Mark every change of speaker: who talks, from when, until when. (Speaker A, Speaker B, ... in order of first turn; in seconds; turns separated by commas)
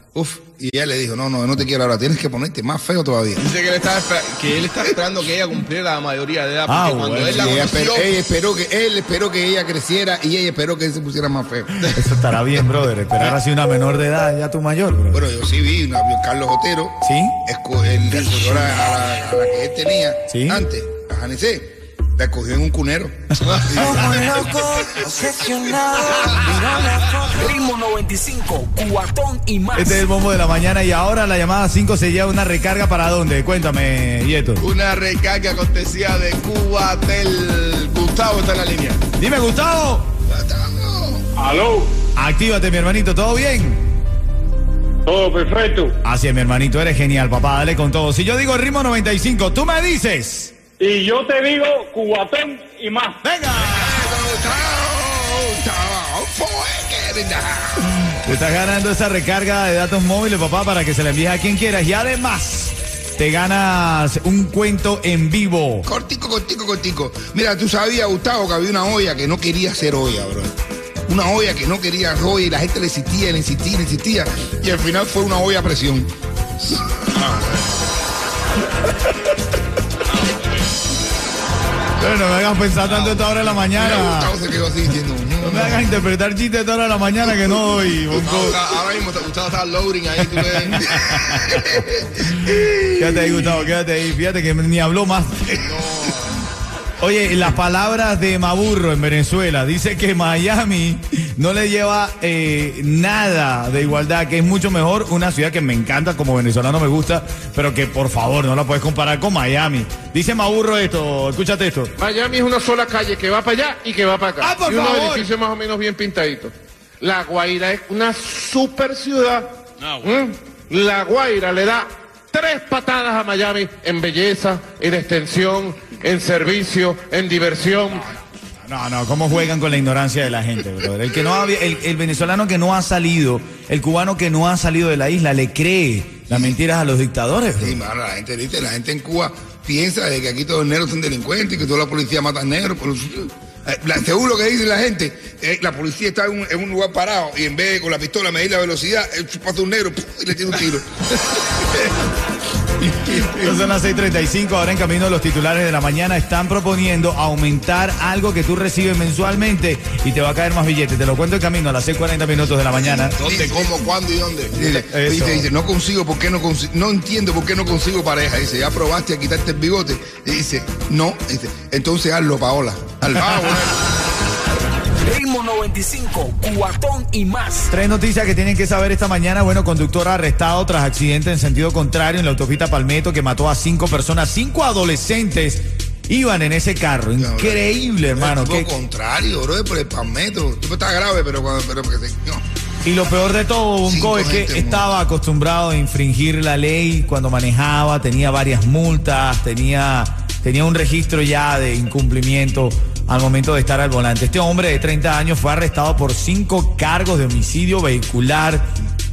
Speaker A: 0.1-3.4, Speaker B: 3.4-8.1, Speaker C: 6.7-7.6, Speaker A: 7.3-12.1, Speaker C: 11.8-15.2, Speaker A: 15.1-24.4, Speaker C: 17.0-17.4, Speaker C: 20.3-20.6, Speaker B: 23.5-24.6, Speaker C: 23.8-24.4, Speaker D: 24.4-25.5, Speaker C: 25.9-26.6, Speaker D: 26.4-30.0, Speaker B: 26.5-27.3, Speaker C: 29.8-34.6, Speaker B: 34.6-39.0, Speaker C: 39.2-40.1, Speaker A: 40.3-41.3, Speaker E: 41.4-42.0, Speaker C: 42.1-43.8, Speaker E: 45.1-46.0, Speaker C: 46.0-50.5, Speaker E: 50.8-53.2, Speaker C: 53.2-54.1, Speaker A: 53.6-57.9, Speaker C: 57.9-65.9, Speaker A: 65.8-70.5, Speaker A: 71.1-77.7, Speaker C: 82.0-84.3, Speaker B: 82.8-83.4, Speaker A: 83.7-86.0, Speaker C: 85.4-88.6, Speaker A: 87.3-87.8, Speaker B: 88.1-90.9, Speaker C: 90.7-91.8, Speaker A: 90.9-93.7, Speaker C: 92.9-95.6, Speaker B: 95.6-96.3, Speaker C: 97.0-111.9, Speaker F: 112.0-114.3, Speaker C: 114.4-115.3, Speaker F: 115.3-116.5, Speaker F: 117.0-119.4, Speaker B: 119.8-120.2, Speaker F: 120.7-127.9, Speaker C: 128.7-137.8, Speaker A: 136.3-136.6, Speaker A: 137.6-151.8, Speaker A: 152.8-153.3, Speaker C: 153.1-163.2, Speaker A: 162.7-163.8, Speaker B: 163.2-164.6, Speaker A: 164.5-173.9, Speaker C: 164.6-165.5, Speaker D: 174.9-177.7, Speaker C: 177.7-188.7, Speaker A: 187.2-192.4, Speaker C: 192.8-208.7, Speaker A: 193.9-194.9